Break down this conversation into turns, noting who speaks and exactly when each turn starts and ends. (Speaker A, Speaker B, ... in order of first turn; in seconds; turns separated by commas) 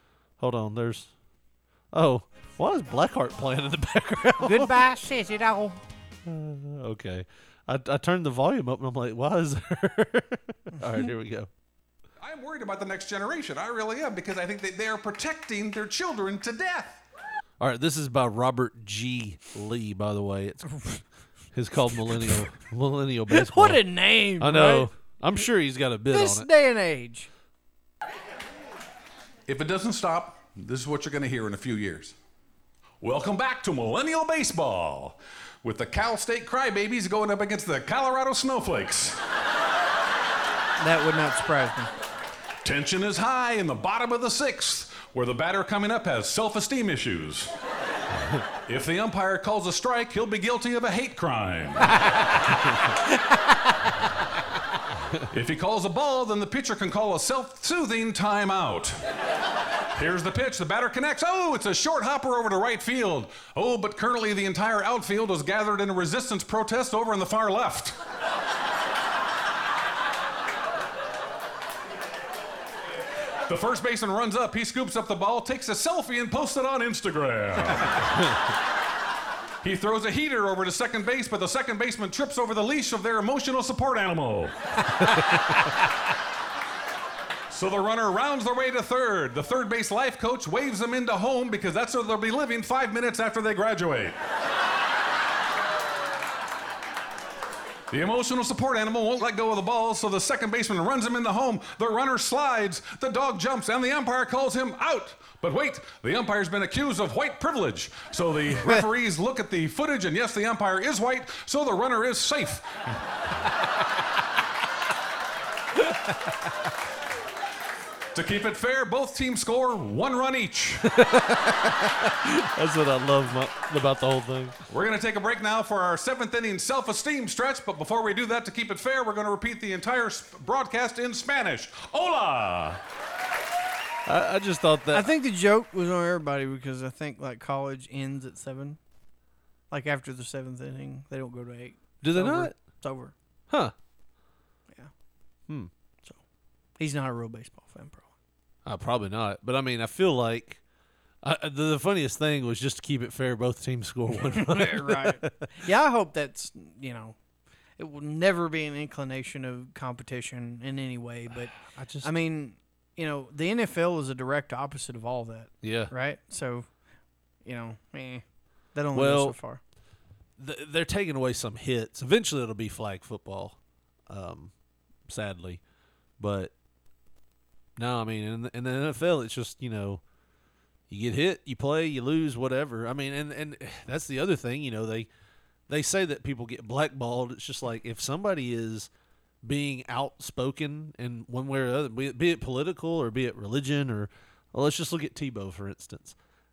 Speaker A: 0.4-1.1, Speaker A: 1.9-4.9, Speaker B: 4.4-5.8, Speaker A: 6.2-11.5, Speaker C: 12.2-17.0, Speaker A: 17.6-20.9, Speaker B: 20.7-21.0, Speaker A: 21.5-23.8, Speaker B: 23.3-24.9, Speaker A: 24.4-26.5, Speaker B: 26.1-27.3, Speaker C: 29.5-32.2, Speaker C: 33.0-39.2, Speaker B: 40.8-41.9, Speaker C: 42.6-47.5, Speaker C: 48.7-52.5, Speaker C: 55.3-59.0, Speaker C: 59.9-68.0, Speaker C: 73.5-78.4, Speaker C: 79.6-85.5, Speaker C: 87.5-94.2, Speaker C: 97.9-112.6, Speaker A: 115.9-116.4, Speaker C: 118.1-120.9, Speaker A: 120.8-124.6, Speaker C: 124.7-132.8, Speaker A: 134.1-135.1, Speaker B: 134.9-138.8, Speaker B: 139.7-143.1, Speaker A: 142.0-142.6, Speaker A: 143.5-143.7, Speaker B: 146.8-148.1, Speaker A: 148.6-150.6, Speaker A: 151.2-155.5, Speaker B: 154.1-157.2, Speaker B: 157.8-166.7, Speaker A: 161.3-162.2, Speaker A: 165.6-165.9, Speaker B: 167.4-168.2, Speaker B: 168.7-169.6, Speaker A: 168.9-169.4, Speaker A: 170.4-173.6, Speaker A: 174.1-174.5, Speaker A: 175.1-175.6, Speaker A: 176.2-176.5, Speaker A: 177.8-180.0, Speaker A: 180.9-185.1, Speaker A: 185.7-188.9, Speaker A: 189.4-196.2